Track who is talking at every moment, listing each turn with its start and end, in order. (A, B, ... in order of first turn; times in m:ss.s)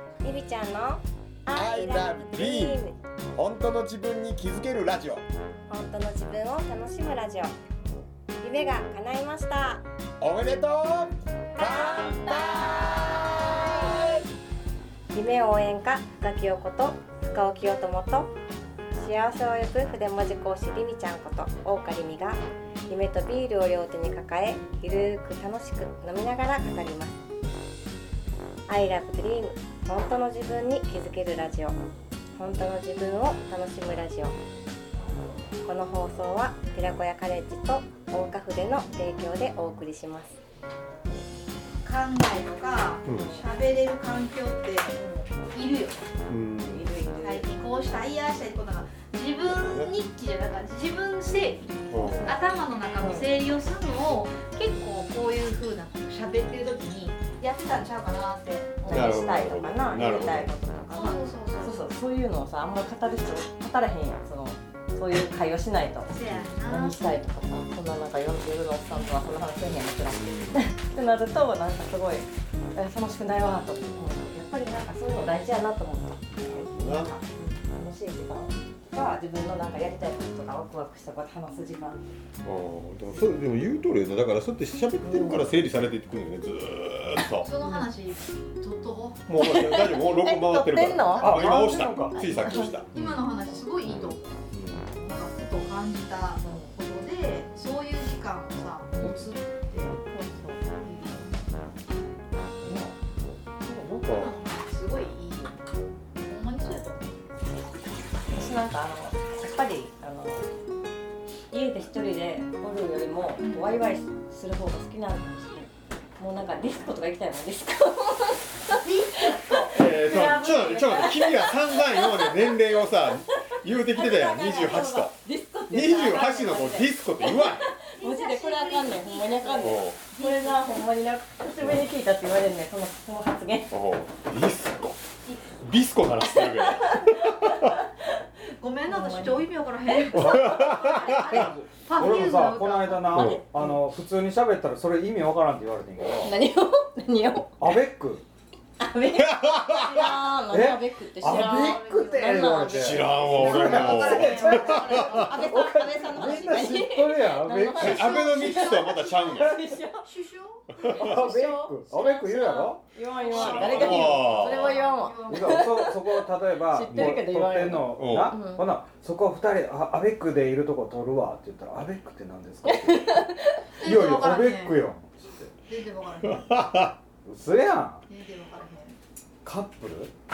0:00.2-0:03.0 A
0:01.5-0:02.8 B
0:03.4-0:05.2 B
0:05.7-0:07.5 A
0:08.4-0:09.8 A
0:10.2-0:14.2 B
0:11.6-0:12.3 A
0:15.1-0:18.3 A
0:18.9-0:27.2 A
0:28.7-0:31.8 A
0:32.4-0:34.4 A
0:35.6-0:40.4 A
0:41.8-0:45.0 C
0:43.0-0:43.4 B
0:43.1-0:43.4 D
0:44.9-0:45.3 D
0:45.5-0:46.0 C
0:46.3-0:46.8 B
0:46.6-0:47.5 D
0:47.2-0:59.3 C
0:49.5-0:50.0 B
0:51.9-0:52.4 B
0:52.0-0:53.3 D
0:58.8-1:22.0 D
0:58.9-1:00.5 B
1:00.9-1:01.8 C
1:06.1-1:07.2 C
1:16.4-1:17.1 B
1:22.4-1:27.5 B
1:25.0-1:25.5 D
1:27.4-1:29.2 C
1:27.6-1:27.9 D
1:29.3-1:33.2 B
1:29.4-1:32.8 D
1:31.2-1:32.8 E
1:32.9-1:34.4 C
1:33.9-1:34.2 B
1:34.5-1:34.9 E
1:35.0-1:40.0 C
1:36.4-1:36.7 D
1:39.0-1:39.2 B
1:40.1-1:40.6 D
1:40.8-1:41.4 C
1:42.6-1:44.4 B
1:44.2-1:45.6 C
1:46.2-1:47.4 C
1:48.3-1:50.5 D
1:51.5-2:13.7 D
1:53.4-1:53.8 C
1:58.7-1:59.7 C
1:59.7-2:05.2 B
2:05.7-2:07.6 B
2:08.0-2:10.8 C
2:09.6-2:10.0 B
2:13.7-2:15.0 B
2:15.6-2:17.7 B
2:16.3-2:17.9 D
2:18.6-2:23.3 C
2:18.9-2:21.2 D
2:20.1-2:21.5 B
2:21.1-2:26.4 E
2:23.1-2:23.4 B
2:26.2-2:27.6 D
2:27.6-2:28.2 E
2:28.8-2:40.1 D
2:29.2-2:30.3 B
2:30.5-2:38.2 E
2:31.3-2:32.5 C
2:32.7-2:35.5 B
2:33.0-2:35.5 C
2:37.8-2:39.6 B
2:37.9-2:39.0 C
2:39.3-2:39.6 E
2:40.0-2:40.7 C
2:40.7-2:41.2 B
2:40.8-2:46.1 D
2:40.9-2:42.9 E
2:43.3-2:44.8 B
2:43.3-2:45.8 C
2:45.3-2:53.2 E
2:46.7-2:48.7 D
2:48.0-2:48.4 B
2:52.6-2:53.6 D
2:53.8-2:54.8 C
2:53.8-2:55.5 E
2:55.7-2:56.5 C
2:56.2-2:57.0 B
2:57.2-2:58.0 E
2:58.1-2:59.0 C
2:59.4-3:00.1 E